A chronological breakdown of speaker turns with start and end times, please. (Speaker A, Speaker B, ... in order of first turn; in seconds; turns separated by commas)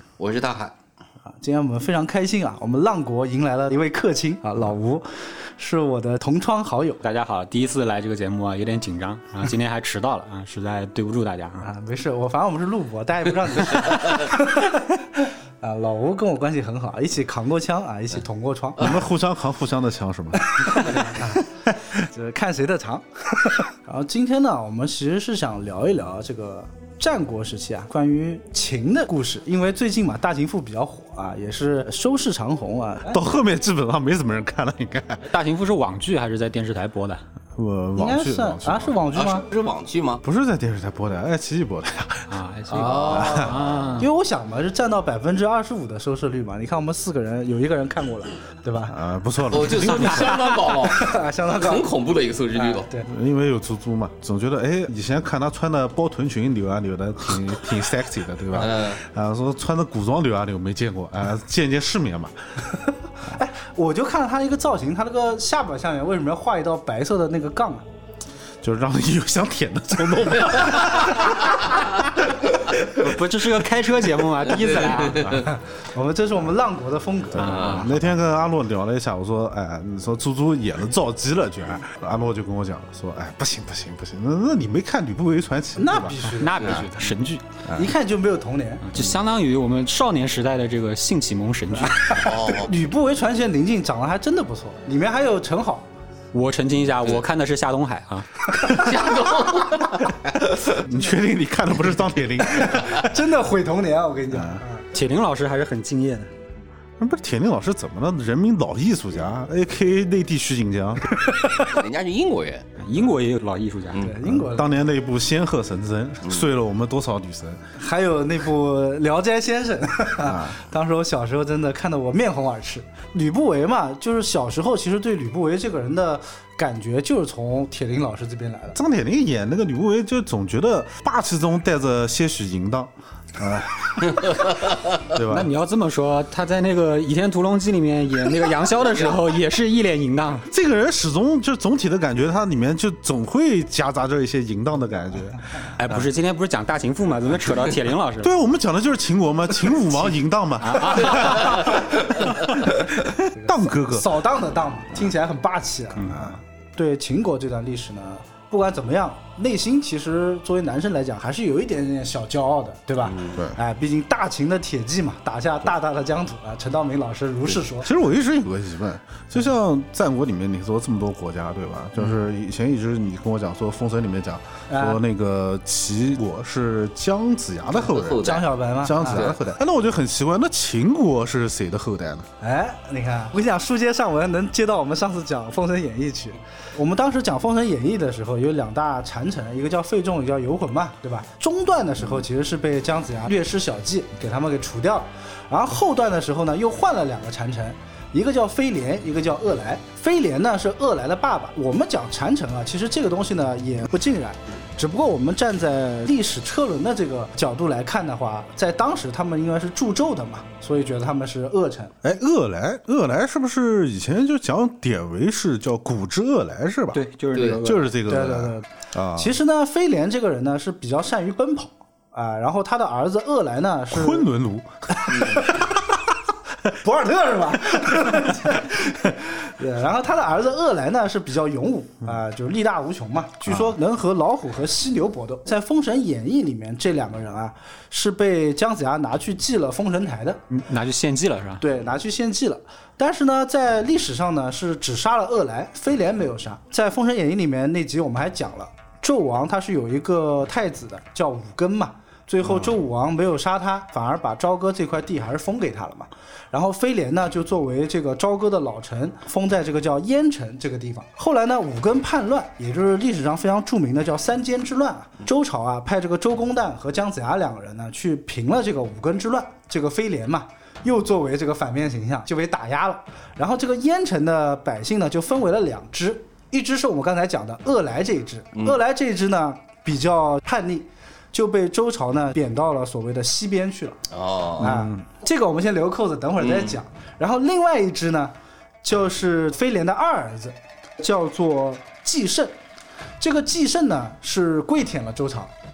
Speaker A: 0.2-0.7, Speaker B: 1.3-7.0, Speaker C: 7.0-11.7, Speaker B: 11.6-18.9, Speaker D: 18.8-21.0, Speaker B: 20.6-33.2, Speaker D: 33.0-35.2, Speaker C: 35.3-37.2, Speaker D: 37.5-39.0, Speaker B: 38.0-39.5, Speaker A: 39.1-40.2, Speaker D: 40.2-42.3, Speaker C: 42.3-44.1, Speaker A: 42.7-43.9, Speaker B: 42.8-49.0, Speaker D: 43.1-43.5, Speaker D: 48.9-50.5, Speaker A: 49.5-52.9, Speaker B: 50.2-51.9, Speaker B: 52.5-53.1, Speaker D: 53.0-62.3, Speaker A: 58.5-59.0, Speaker B: 63.3-67.8, Speaker D: 68.6-71.6, Speaker C: 72.8-75.5, Speaker A: 74.8-75.4, Speaker B: 75.3-78.0, Speaker D: 77.3-86.3, Speaker C: 77.3-77.9, Speaker B: 85.8-86.9, Speaker C: 86.3-87.4, Speaker D: 87.6-87.9, Speaker B: 87.7-88.9, Speaker C: 88.8-92.3, Speaker A: 92.1-92.7, Speaker B: 92.4-95.9, Speaker C: 96.3-98.3, Speaker A: 98.6-100.1, Speaker B: 98.7-99.4, Speaker D: 100.5-103.2, Speaker B: 102.6-104.8, Speaker D: 104.3-104.6, Speaker C: 104.9-106.3, Speaker D: 107.0-111.1, Speaker B: 111.2-111.7, Speaker A: 111.6-112.7, Speaker C: 112.8-114.1, Speaker B: 113.9-114.8, Speaker D: 114.2-117.6, Speaker B: 117.8-128.8, Speaker D: 120.2-120.6, Speaker D: 128.7-134.4, Speaker D: 135.0-135.5, Speaker C: 135.2-140.5, Speaker D: 140.5-146.0, Speaker C: 145.8-148.3, Speaker D: 148.2-154.2, Speaker C: 150.6-151.7, Speaker B: 153.3-167.9, Speaker D: 156.0-156.4, Speaker A: 163.0-163.3, Speaker D: 163.3-163.6, Speaker D: 167.8-182.3, Speaker B: 174.7-175.0, Speaker A: 177.7-178.5, Speaker B: 178.2-179.3, Speaker A: 179.0-179.4, Speaker B: 182.4-211.9, Speaker D: 212.0-219.3, Speaker C: 216.9-217.9, Speaker A: 217.3-217.6, Speaker B: 218.1-224.2, Speaker D: 223.9-225.1, Speaker B: 224.9-225.6, Speaker A: 225.1-225.4, Speaker B: 226.7-240.4, Speaker D: 233.4-233.7, Speaker C: 240.5-241.6, Speaker B: 241.6-284.0, Speaker D: 252.4-252.7, Speaker A: 278.6-278.8, Speaker A: 284.1-284.8, Speaker B: 284.6-292.5, Speaker C: 284.6-285.0, Speaker A: 286.4-286.8, Speaker B: 293.2-295.5